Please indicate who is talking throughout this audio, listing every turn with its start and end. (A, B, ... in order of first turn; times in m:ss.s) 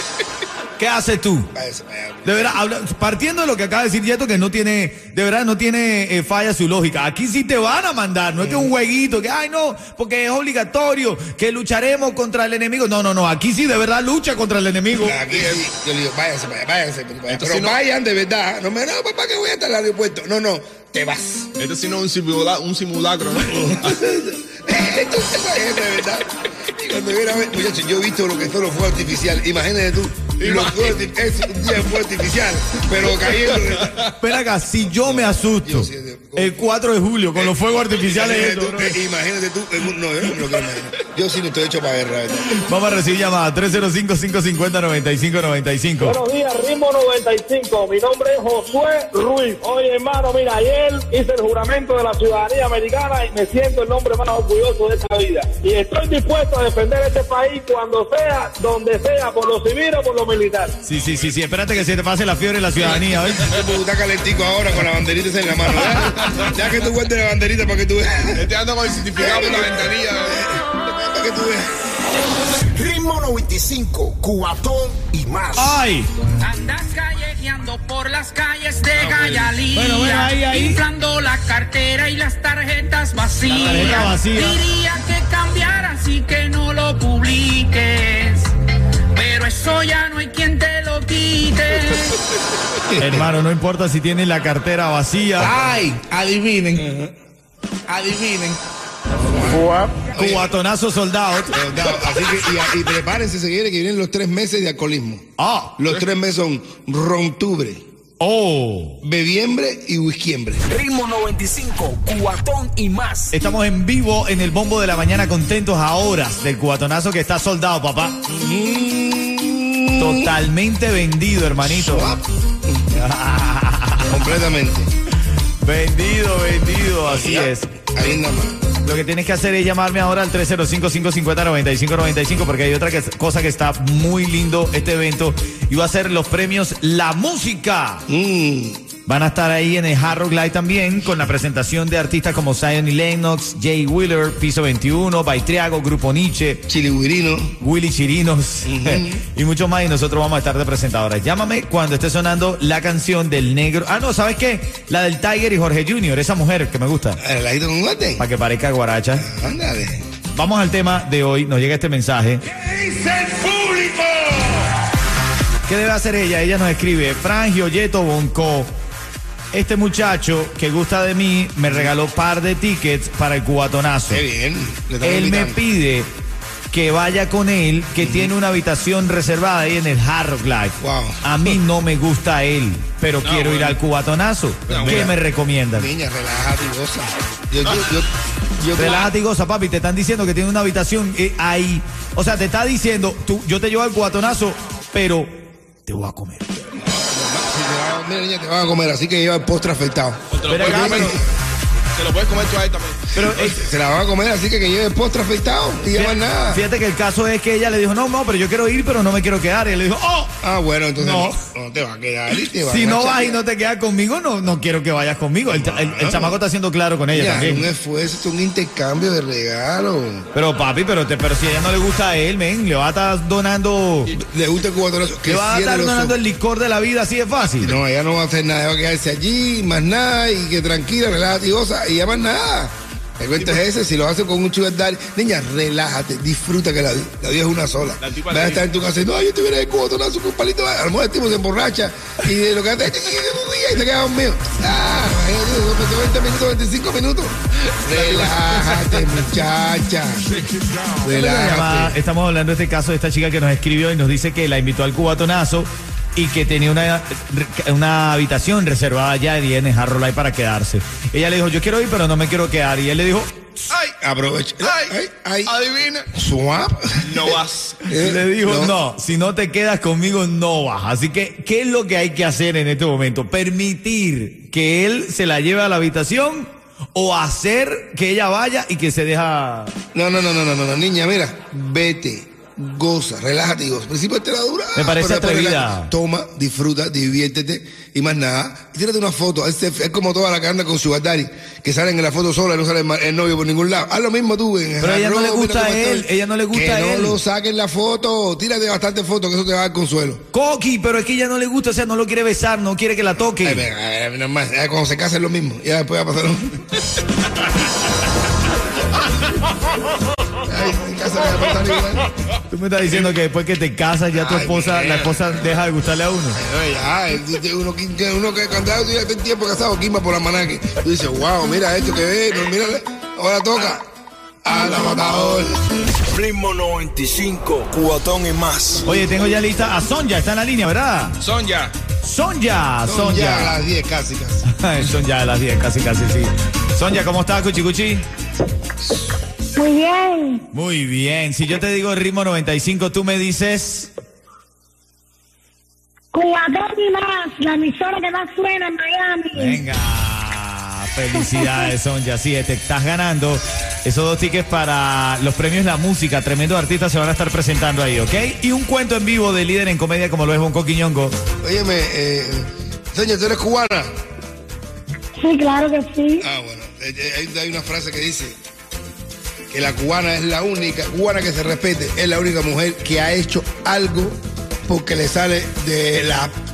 0:00.8-0:01.5 A
0:01.5-0:02.6 B
0:02.2-0:15.2 A
0:08.4-0:08.7 B
0:15.0-0:21.5 B
0:15.2-0:15.6 C
0:17.3-0:17.8 C
0:21.6-0:24.0 C
0:23.5-0:34.0 B
0:30.4-0:31.0 C
0:33.4-0:34.1 C
0:34.2-0:39.0 A
0:34.9-0:36.7 B
0:37.4-0:42.6 B
0:42.6-0:46.2 A
0:46.0-1:00.8 D
1:00.8-1:03.4 A
1:00.9-1:01.4 C
1:02.8-1:03.5 C
1:03.4-1:08.5 B
1:08.4-1:10.4 C
1:09.2-1:11.8 B
1:12.7-1:15.9 E
1:15.6-1:16.1 A
1:16.4-1:28.5 F
1:19.0-1:19.6 C
1:19.7-1:20.8 A
1:23.5-1:24.6 A
1:29.2-1:32.2 F
1:32.9-1:33.3 B
1:33.0-1:35.6 A
1:35.4-1:36.9 C
1:36.8-1:37.1 B
1:37.9-1:38.6 C
1:39.3-1:40.5 B
1:40.2-1:41.7 A
1:41.5-1:45.2 B
1:45.4-1:45.8 A
1:45.8-1:47.8 B
1:48.2-1:49.0 A
1:49.0-1:50.6 B
1:50.6-1:53.3 E
1:53.3-1:58.2 A
1:58.3-2:00.3 B
2:00.0-2:02.1 A
2:01.7-2:03.0 B
2:02.9-2:04.3 A
2:04.0-2:04.9 B
2:05.6-2:07.7 A
2:07.0-2:08.6 B
2:08.8-2:18.1 A
2:18.1-2:18.8 B
2:19.0-2:26.6 A
2:26.7-2:27.6 B
2:27.6-2:37.2 A
2:28.6-2:29.2 B
2:37.2-2:38.2 B
2:38.2-2:39.3 A
2:39.2-2:40.1 B
2:40.3-2:42.4 A
2:42.6-2:44.4 E
2:45.7-2:48.8 A
2:49.5-2:54.2 A
2:54.1-2:55.6 B
2:55.0-2:56.1 A
2:56.7-3:05.9 A
2:58.0-2:58.4 B
3:00.8-3:01.6 B
3:03.2-3:03.8 C
3:04.7-3:05.2 C
3:04.8-3:05.1 B
3:05.7-3:09.1 B
3:08.7-3:15.3 A
3:15.9-3:16.6 A
3:16.8-3:21.2 B
3:20.3-3:21.2 C
3:20.5-3:21.2 A
3:21.9-3:23.5 C
3:23.1-3:23.7 A
3:23.2-3:26.6 B
3:25.9-3:30.4 A
3:30.4-3:33.4 B
3:31.0-3:31.4 A
3:32.6-3:37.7 A
3:35.5-3:36.4 B
3:37.1-3:40.3 B
3:40.3-3:44.2 A
3:44.2-3:46.2 B
3:45.3-3:47.8 A
3:47.6-4:10.3 B
3:58.0-3:58.7 C
4:07.9-4:08.7 C
4:11.0-4:12.0 B
4:11.1-4:23.6 A
4:23.7-4:24.0 C
4:24.0-4:25.6 B
4:24.6-4:25.0 C
4:25.5-4:26.1 C
4:26.1-4:27.3 B
4:27.0-4:27.9 C
4:27.9-4:28.8 B
4:28.0-4:39.7 A
4:39.9-5:00.2 B
4:44.8-4:45.9 A
4:54.8-4:57.2 A
5:00.3-5:03.6 A
5:03.4-5:06.6 B
5:10.5-5:12.1 B
5:12.5-5:16.4 A
5:14.2-5:15.3 B
5:16.4-5:23.8 B
5:24.4-5:25.6 B
5:26.1-5:28.9 E
5:28.8-5:31.2 A
5:31.2-5:31.8 C
5:31.9-5:33.6 A
5:32.8-5:34.5 B
5:34.5-5:38.0 A
5:39.6-5:40.4 G
5:40.5-5:43.9 A
5:46.1-5:49.6 G
5:49.3-6:01.2 A
5:51.1-5:51.7 G
6:01.4-6:03.9 B
6:05.2-6:06.2 G
6:06.2-6:08.4 B
6:09.5-6:16.3 B